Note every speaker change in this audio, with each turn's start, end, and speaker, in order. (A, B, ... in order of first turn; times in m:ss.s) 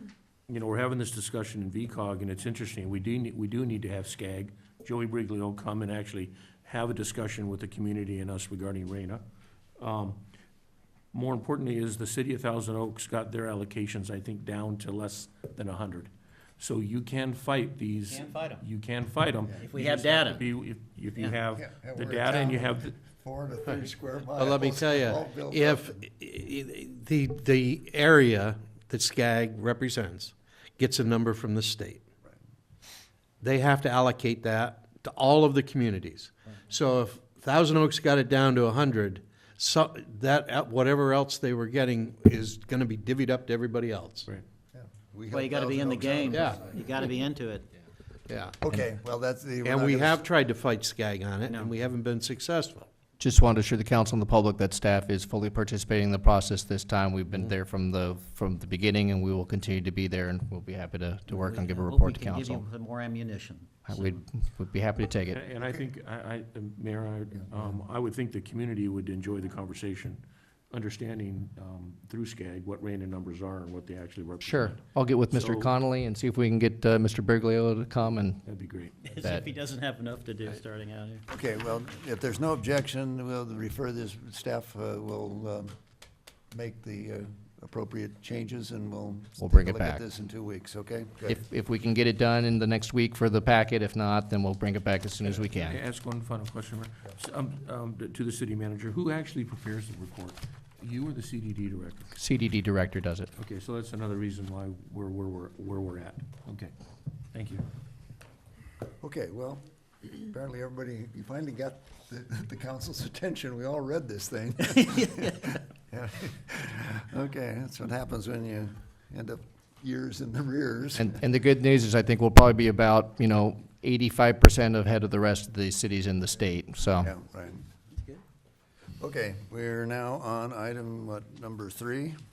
0:00.5-0:09.2 A
0:09.8-0:10.2 A
0:11.1-0:23.0 A
0:18.1-0:18.6 B
0:19.6-0:20.4 B
0:21.6-0:26.1 C
0:24.4-0:32.0 D
0:33.4-0:44.3 D
0:44.7-0:46.8 C
0:45.3-0:47.7 B
0:46.3-0:46.6 D
0:48.3-0:48.8 E
0:48.6-0:50.3 C
0:49.6-0:52.9 D
0:51.5-0:51.7 B
0:53.2-1:02.6 E
1:01.3-1:04.2 B
1:03.9-1:05.4 E
1:05.3-1:15.7 A
1:14.4-1:18.4 E
1:18.4-1:19.2 A
1:19.0-1:21.2 B
1:21.3-1:25.7 C
1:26.5-1:31.4 C
1:29.4-1:30.0 E
1:31.3-1:35.8 E
1:35.2-1:42.2 A
1:42.2-1:43.3 E
1:43.4-1:46.7 A
1:47.3-1:47.6 A
1:49.0-2:01.2 C
1:54.8-1:55.6 B
2:01.0-2:07.1 E
2:07.0-2:07.6 C
2:09.0-2:12.2 C